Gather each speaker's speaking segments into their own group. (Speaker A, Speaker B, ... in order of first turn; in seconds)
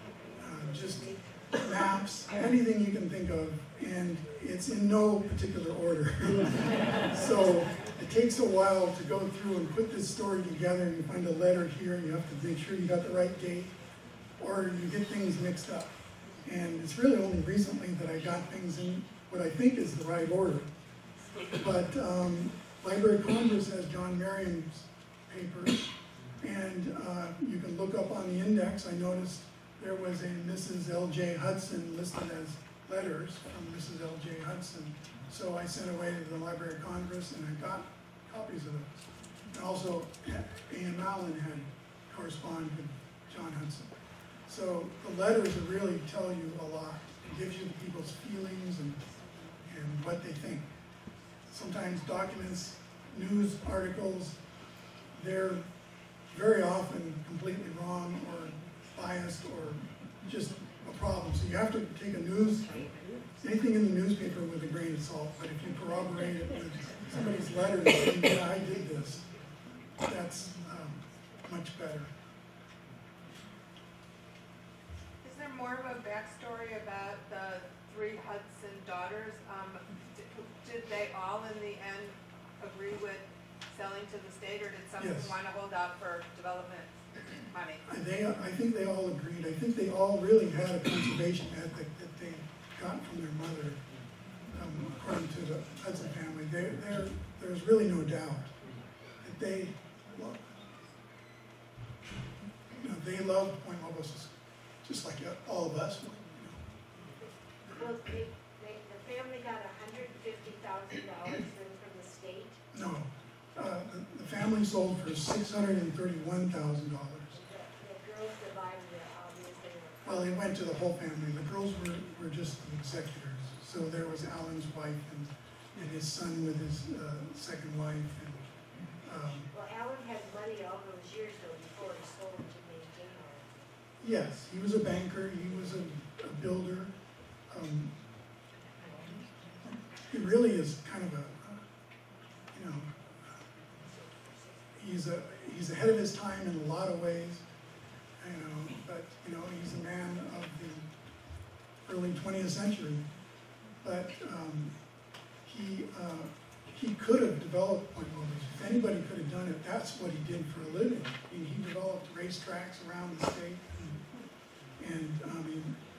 Speaker A: 0.4-13.7, 14.4-20.7, 21.5-39.0, 39.5-43.9, 44.5-49.0, 49.7-50.7, 51.5-54.4, 55.1-55.7, 56.3-62.8, 63.4-69.2, 70.0-72.1, 85.0-85.3, 87.9-93.8, 94.5-98.5, 99.2-100.5, 102.8-106.6, 112.7-117.4, 120.0-128.5, 129.0-129.5, 134.0-136.9, 137.5-137.9, 139.7-141.6, 142.5-142.9, 144.8-147.4, 148.2-150.9, 151.8-153.1, 153.8-154.7, 155.4-163.9, 164.8-165.8
Speaker B: 75.2-87.0, 87.5-87.8
Speaker C: 107.7-112.6, 117.3-120.3, 129.5-133.3